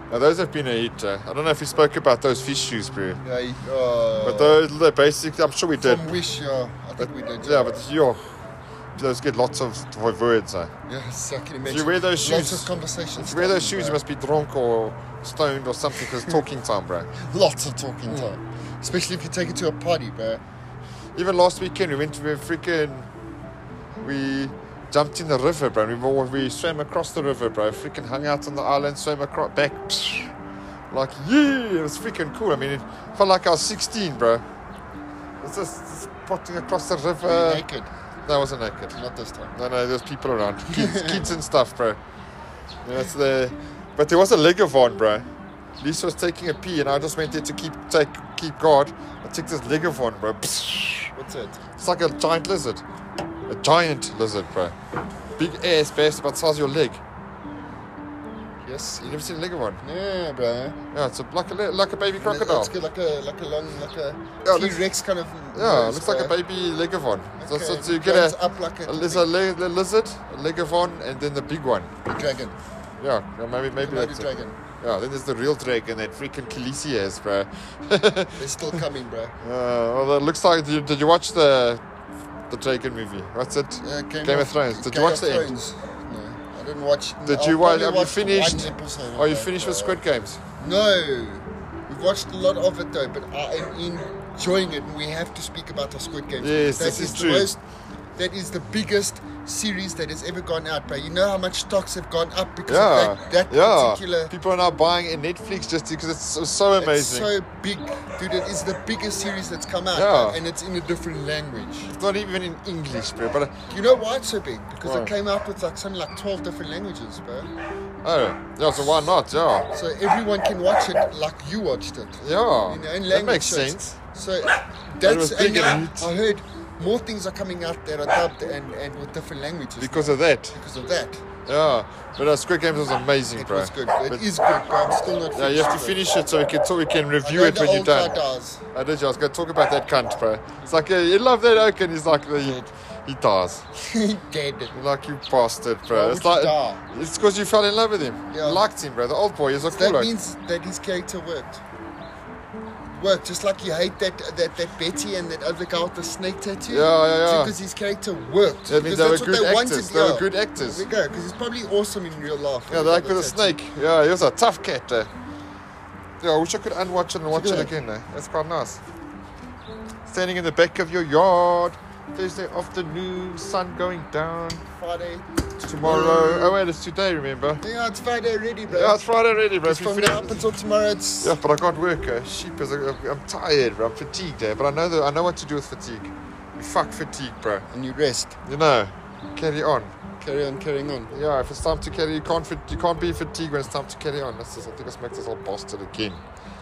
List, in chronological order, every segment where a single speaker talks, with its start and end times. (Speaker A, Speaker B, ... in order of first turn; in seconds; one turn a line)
Speaker A: 0.1-3.2
Speaker B: 3.2-4.6
Speaker A: 4.2-6.2
Speaker B: 5.8-7.8
Speaker A: 7.0-8.2
Speaker A: 9.0-10.7
Speaker B: 10.9-14.0
Speaker A: 11.7-17.1
Speaker B: 17.2-20.4
Speaker A: 21.1-23.1
Speaker A: 24.0-30.3
Speaker A: 30.9-34.4
Speaker A: 35.4-37.6
Speaker B: 37.2-37.9
Speaker A: 38.2-39.0
Speaker B: 38.9-39.5
Speaker A: 39.5-42.0
Speaker B: 40.7-41.4
Speaker A: 42.8-45.3
Speaker A: 45.8-51.1
Speaker B: 51.1-51.6
Speaker A: 51.8-52.8
Speaker A: 53.5-54.8
Speaker A: 55.4-57.0
Speaker B: 58.6-59.3
Speaker A: 59.0-59.8
Speaker B: 59.8-60.8
Speaker A: 60.9-62.7
Speaker B: 62.2-66.4
Speaker A: 64.4-64.8
Speaker A: 65.5-71.9
Speaker B: 67.4-69.3
Speaker B: 72.0-72.6
Speaker A: 73.0-78.8
Speaker B: 73.8-74.6
Speaker B: 78.4-79.3
Speaker A: 79.4-81.8
Speaker A: 82.5-85.5
Speaker B: 83.8-90.0
Speaker A: 87.2-90.4
Speaker B: 90.6-97.6
Speaker A: 96.4-97.5
Speaker B: 98.2-104.3
Speaker A: 102.7-107.3
Speaker B: 106.8-111.9
Speaker A: 109.9-110.4
Speaker A: 111.9-113.6
Speaker B: 113.7-117.5
Speaker A: 114.8-115.1
Speaker A: 118.0-119.7
Speaker B: 119.7-131.2
Speaker A: 122.2-124.0
Speaker A: 125.0-126.1
Speaker A: 129.8-130.6
Speaker A: 131.5-134.2
Speaker B: 133.3-136.1
Speaker A: 135.3-138.2
Speaker B: 137.2-138.6
Speaker A: 138.7-143.7
Speaker B: 143.8-144.7
Speaker A: 144.7-150.1
Speaker B: 145.9-146.8
Speaker B: 148.3-148.6
Speaker B: 149.7-151.6
Speaker B: 153.0-163.5
Speaker A: 156.7-157.5
Speaker A: 158.7-160.9
Speaker A: 162.7-165.1
Speaker A: 166.2-168.8
Speaker B: 167.3-167.7
Speaker A: 170.1-174.6
Speaker B: 174.8-176.6
Speaker A: 175.6-177.6
Speaker B: 177.6-179.0
Speaker A: 178.7-180.5
Speaker B: 179.6-181.4
Speaker A: 181.2-187.7
Speaker B: 187.7-188.4
Speaker A: 188.4-189.9
Speaker B: 190.2-191.1
Speaker A: 191.1-196.2